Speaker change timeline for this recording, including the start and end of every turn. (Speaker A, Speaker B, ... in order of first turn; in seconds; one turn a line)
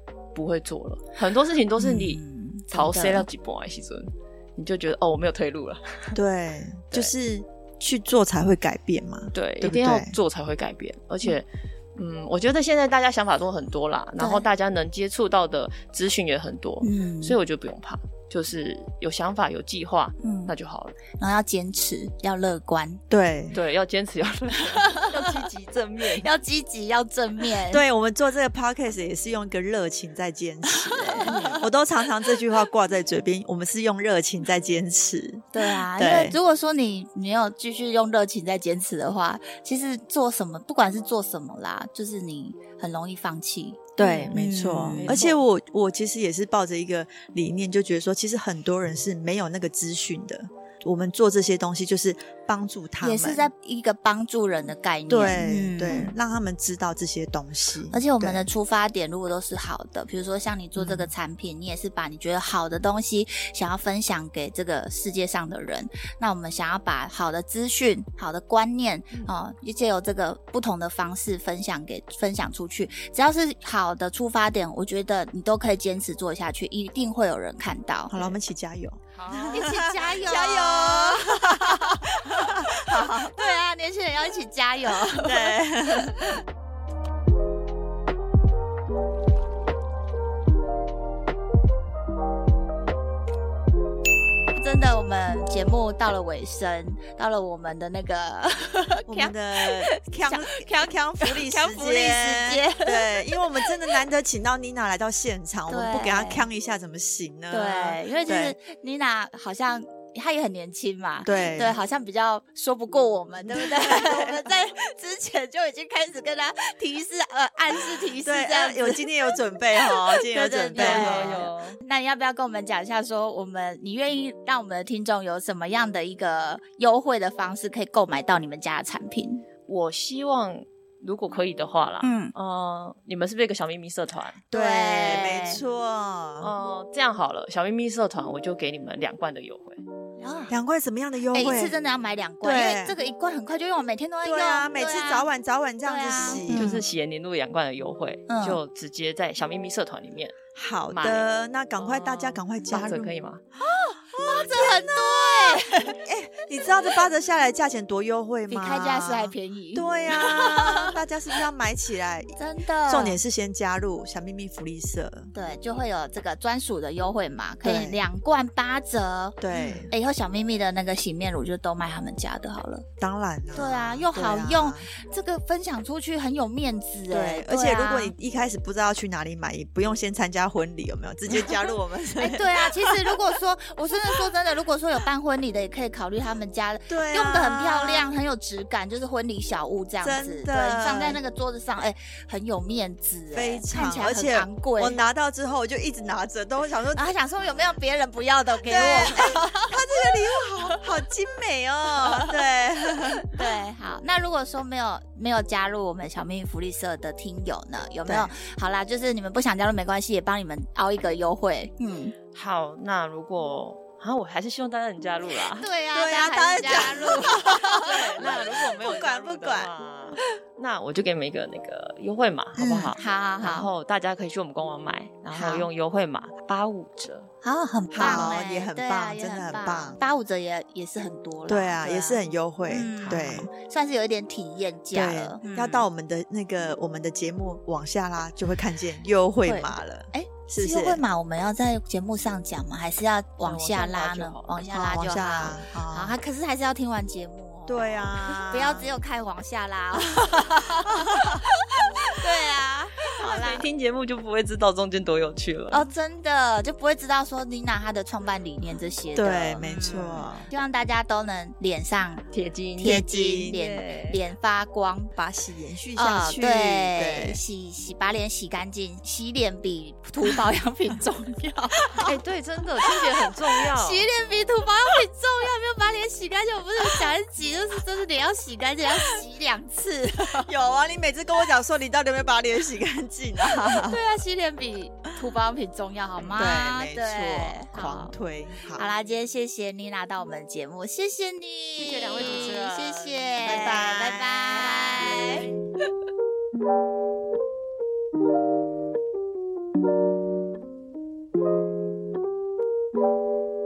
Speaker A: 0.3-6.2
Speaker B: 1.8-3.3
Speaker C: 6.1-10.2
Speaker A: 9.3-20.9
Speaker B: 14.2-14.4
Speaker B: 16.8-17.4
Speaker B: 20.2-20.5
Speaker B: 21.2-23.0
Speaker C: 23.1-23.6
Speaker A: 23.5-26.2
Speaker B: 24.5-25.5
Speaker C: 25.2-26.1
Speaker B: 26.0-27.8
Speaker C: 27.7-36.4
Speaker B: 30.7-31.6
Speaker A: 31.1-31.6
Speaker B: 35.5-45.2
Speaker C: 44.0-53.5
Speaker A: 44.0-44.3
Speaker A: 44.9-45.4
Speaker B: 53.0-56.1
Speaker C: 55.1-58.5
Speaker B: 57.9-78.2
Speaker C: 60.8-61.1
Speaker C: 78.1-83.3
Speaker A: 79.1-79.8
Speaker B: 79.5-86.4
Speaker C: 85.0-86.4
Speaker B: 94.5-104.0
Speaker C: 99.1-108.5
Speaker B: 105.7-106.5
Speaker B: 107.5-129.4
Speaker C: 111.2-111.8
Speaker C: 113.5-114.5
Speaker C: 118.2-121.5
Speaker A: 120.7-121.8
Speaker A: 129.7-134.4
Speaker B: 132.0-132.3
Speaker C: 134.5-136.5
Speaker B: 134.5-135.6
Speaker A: 136.4-139.8
Speaker B: 140.2-140.6
Speaker C: 140.5-141.7
Speaker B: 141.3-145.3
Speaker C: 142.4-142.9
Speaker C: 144.2-146.7
Speaker B: 145.8-146.8
Speaker A: 146.5-150.4
Speaker B: 148.3-148.6
Speaker C: 150.5-153.2
Speaker A: 150.9-153.4
Speaker B: 153.7-156.0
Speaker C: 153.7-165.3
Speaker B: 158.5-160.9
Speaker B: 162.4-163.2
Speaker B: 165.3-172.8
Speaker C: 167.6-168.0
Speaker C: 169.4-169.9
Speaker C: 173.0-174.9
Speaker B: 173.5-178.1
Speaker C: 177.1-183.2
Speaker B: 181.3-195.0
Speaker C: 186.9-188.1
Speaker C: 190.0-191.2
Speaker C: 193.3-197.0
Speaker B: 196.9-200.8
Speaker C: 198.7-203.4
Speaker B: 201.9-202.4
Speaker B: 203.2-212.1
Speaker C: 208.1-208.3
Speaker A: 212.3-215.7
Speaker B: 215.3-218.2
Speaker C: 215.9-217.9
Speaker A: 217.8-227.3
Speaker C: 218.8-219.7
Speaker B: 222.6-223.7
Speaker C: 222.6-222.9
Speaker B: 225.3-225.7
Speaker B: 227.4-235.8
Speaker C: 227.9-230.0
Speaker C: 231.5-233.5
Speaker A: 232.9-233.4
Speaker C: 234.9-241.0
Speaker B: 239.4-253.6
Speaker A: 243.4-244.7
Speaker C: 244.7-246.2
Speaker C: 247.7-248.9
Speaker C: 250.2-251.3
Speaker A: 253.2-255.8
Speaker B: 255.7-262.2
Speaker C: 259.1-260.5
Speaker A: 262.3-264.2
Speaker B: 262.8-265.1
Speaker C: 262.8-263.6
Speaker C: 265.1-267.4
Speaker B: 265.9-272.1
Speaker A: 272.0-274.1
Speaker B: 273.5-280.5
Speaker C: 280.4-284.0
Speaker B: 283.4-288.1
Speaker C: 286.3-288.9
Speaker B: 288.7-295.5
Speaker A: 291.8-293.6
Speaker C: 293.4-295.5